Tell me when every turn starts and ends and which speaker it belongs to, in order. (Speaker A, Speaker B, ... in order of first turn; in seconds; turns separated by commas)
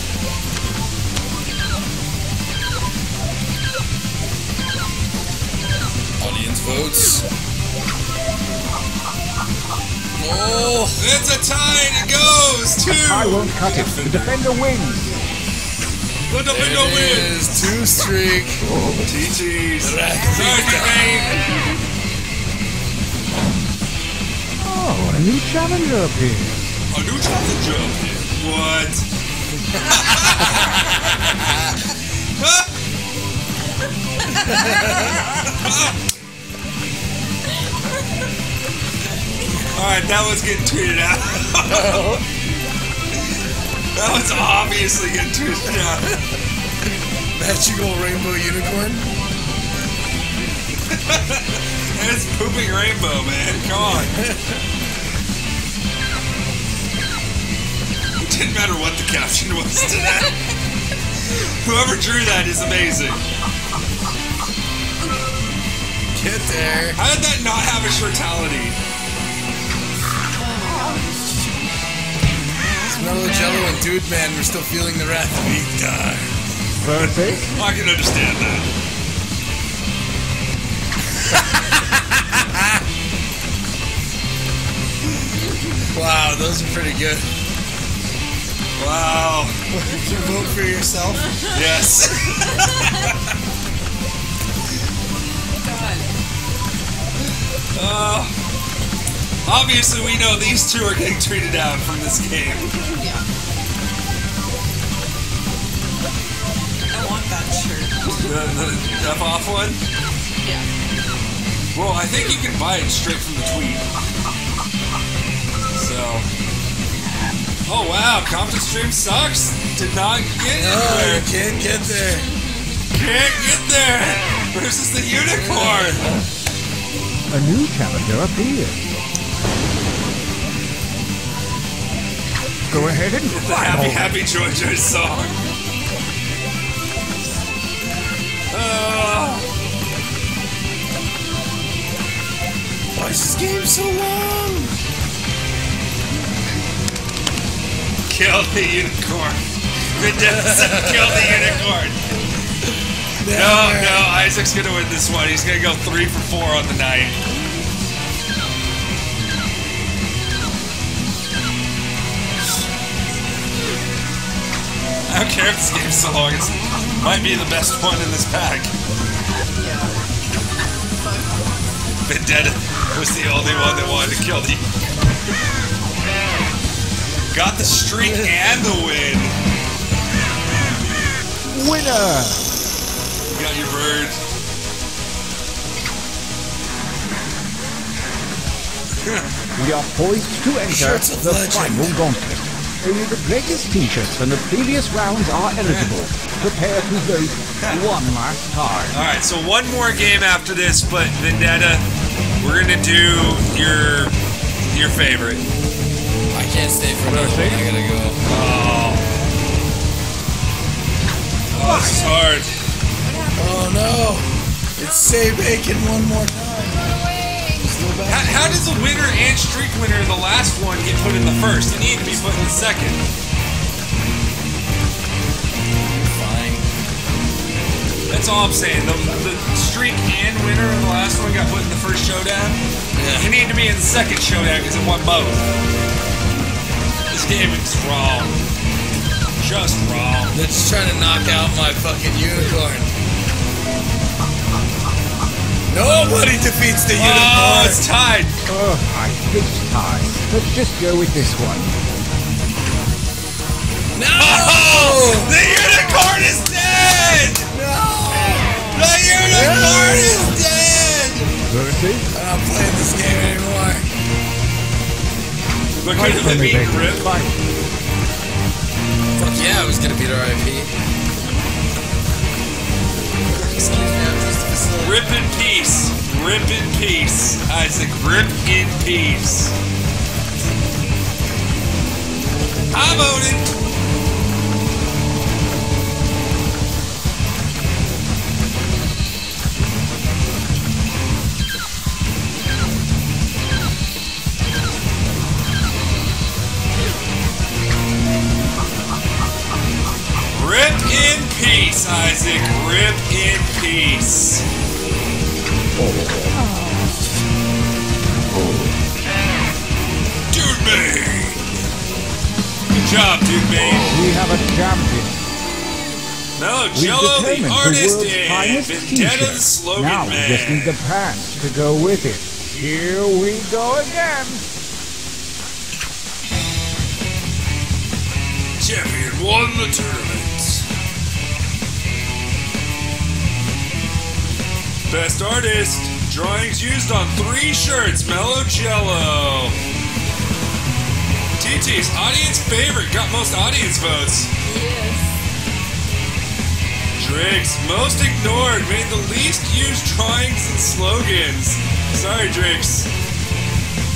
Speaker A: 6.2-7.2, Speaker A: 10.2-11.0, Speaker B: 11.0-14.4, Speaker C: 13.0-15.1, Speaker B: 16.3-17.7, Speaker A: 16.5-18.6, Speaker B: 19.0-21.4, Speaker A: 19.8-21.2, Speaker D: 20.1-21.8, Speaker C: 24.6-26.6, Speaker B: 26.9-29.1, Speaker B: 29.8-31.1, Speaker A: 30.4-31.7, Speaker B: 32.4-32.7, Speaker A: 34.5-35.1, Speaker B: 35.2-35.9, Speaker B: 39.5-42.2, Speaker A: 41.6-42.2, Speaker B: 44.0-46.2, Speaker A: 47.3-49.1, Speaker B: 50.9-54.2, Speaker A: 53.9-54.6, Speaker B: 58.2-60.4, Speaker B: 61.3-63.2, Speaker A: 66.1-67.0, Speaker B: 67.0-68.8, Speaker D: 70.3-71.2, Speaker A: 72.8-76.3, Speaker C: 76.8-77.5, Speaker B: 77.5-78.7, Speaker A: 85.9-87.2, Speaker B: 88.8-89.5, Speaker A: 89.7-91.4, Speaker B: 91.5-93.3, Speaker D: 95.6-96.1, Speaker B: 97.7-98.3, Speaker B: 99.5-102.7, Speaker D: 102.6-103.2, Speaker D: 106.9-108.3, Speaker B: 108.2-109.8, Speaker B: 111.7-113.8, Speaker B: 115.7-116.3, Speaker B: 117.7-121.3, Speaker A: 120.5-122.3, Speaker B: 122.9-126.1, Speaker A: 125.2-126.2, Speaker C: 127.3-128.8, Speaker C: 132.7-134.2, Speaker B: 132.7-135.3, Speaker B: 138.5-139.5, Speaker A: 142.9-144.7, Speaker B: 148.1-152.0, Speaker A: 150.1-151.3, Speaker A: 153.2-154.1, Speaker B: 153.3-157.2, Speaker B: 165.1-168.7, Speaker D: 169.6-170.0, Speaker D: 170.9-171.6, Speaker B: 172.1-174.6, Speaker B: 177.3-179.3, Speaker A: 178.0-178.3, Speaker C: 181.5-182.5, Speaker B: 183.3-184.2, Speaker B: 189.0-189.3, Speaker C: 189.5-199.0, Speaker A: 190.7-191.9, Speaker B: 195.6-195.9, Speaker B: 197.6-197.9, Speaker B: 198.9-201.8, Speaker B: 202.4-204.2, Speaker B: 204.7-205.4, Speaker A: 206.3-208.2, Speaker C: 207.0-207.7, Speaker B: 208.2-209.1, Speaker B: 211.5-212.5, Speaker C: 211.6-212.1, Speaker D: 213.0-213.8, Speaker A: 213.3-216.8, Speaker D: 214.8-215.2, Speaker D: 216.8-217.8, Speaker A: 217.6-218.5, Speaker B: 218.1-223.0, Speaker A: 226.1-226.7, Speaker B: 228.1-232.6, Speaker A: 232.9-233.3, Speaker B: 233.2-235.4, Speaker B: 237.1-238.4, Speaker B: 239.4-240.4, Speaker A: 240.3-242.9, Speaker A: 245.7-247.8, Speaker B: 246.9-248.4, Speaker C: 248.4-251.8, Speaker A: 253.9-255.4, Speaker B: 254.1-257.5, Speaker A: 257.5-258.7, Speaker D: 258.1-258.9, Speaker B: 258.7-261.3, Speaker C: 259.3-260.2, Speaker A: 259.4-260.1, Speaker C: 261.4-262.1, Speaker A: 262.1-263.9, Speaker B: 265.8-267.1, Speaker C: 265.9-267.4, Speaker A: 269.1-270.7, Speaker A: 273.3-275.1, Speaker B: 274.8-279.5, Speaker B: 282.7-283.5, Speaker B: 300.3-304.4, Speaker D: 306.4-307.0, Speaker B: 310.3-311.4, Speaker B: 312.7-313.9, Speaker C: 313.8-315.2, Speaker B: 316.4-320.8, Speaker C: 316.7-324.4, Speaker B: 328.6-330.6, Speaker B: 334.9-339.6, Speaker B: 341.4-344.3, Speaker D: 344.4-345.1, Speaker B: 347.0-352.9